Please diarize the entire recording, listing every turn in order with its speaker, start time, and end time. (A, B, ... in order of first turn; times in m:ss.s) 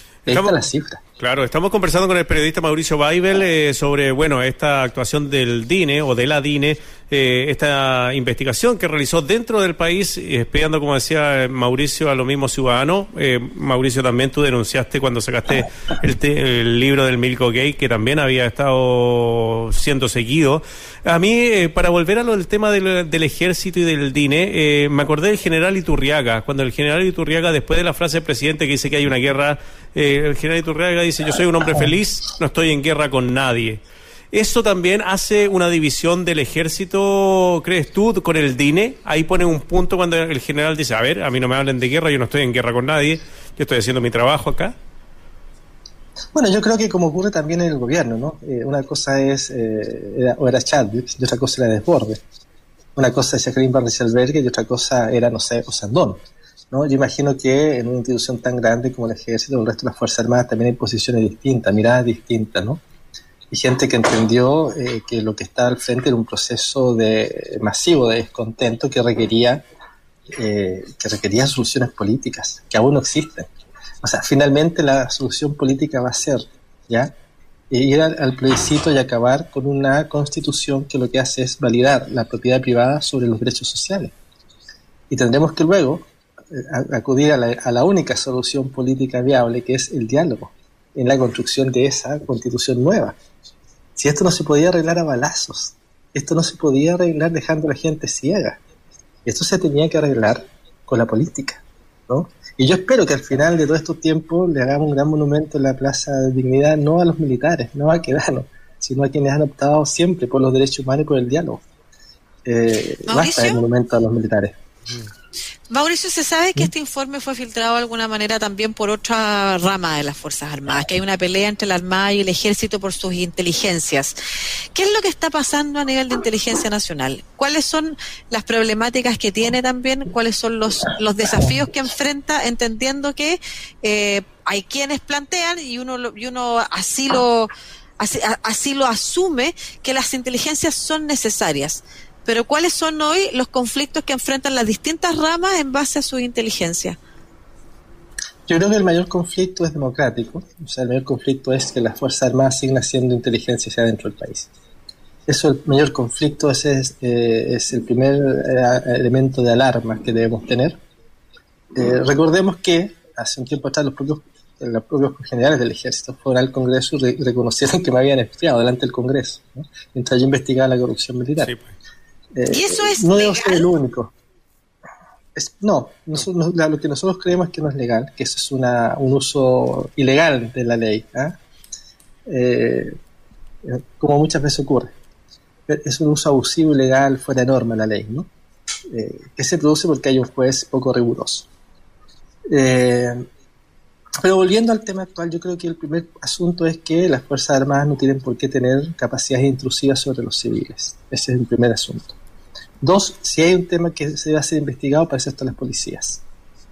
0:00.2-0:00.6 A
0:00.3-0:01.0 B
0:01.2-0:33.8 A
0:34.3-0:44.7 A
0:46.3-0:52.2 B
0:53.0-1:02.8 B
1:03.5-1:09.6 B
1:10.3-1:13.5 B
1:14.0-1:17.1 B
1:17.7-1:24.1 B
1:25.1-1:33.2 B
1:34.0-1:38.6 B
1:39.2-1:51.6 B
1:52.4-1:54.6 B
1:53.1-1:53.6 C
1:55.7-2:04.2 C
2:04.7-2:27.0 C
2:28.5-2:34.5 B
2:35.3-2:40.8 B
2:41.7-2:51.5 B
2:51.4-2:51.7 A
2:52.3-2:54.1 B
2:52.5-2:53.7 C
2:55.3-3:01.4 B
3:02.3-3:02.9 B
3:03.6-3:04.9 B
3:05.7-3:08.3 B
3:08.9-3:11.5 B
3:12.5-3:13.2 B
3:14.2-3:22.2 B
3:22.8-3:26.2 B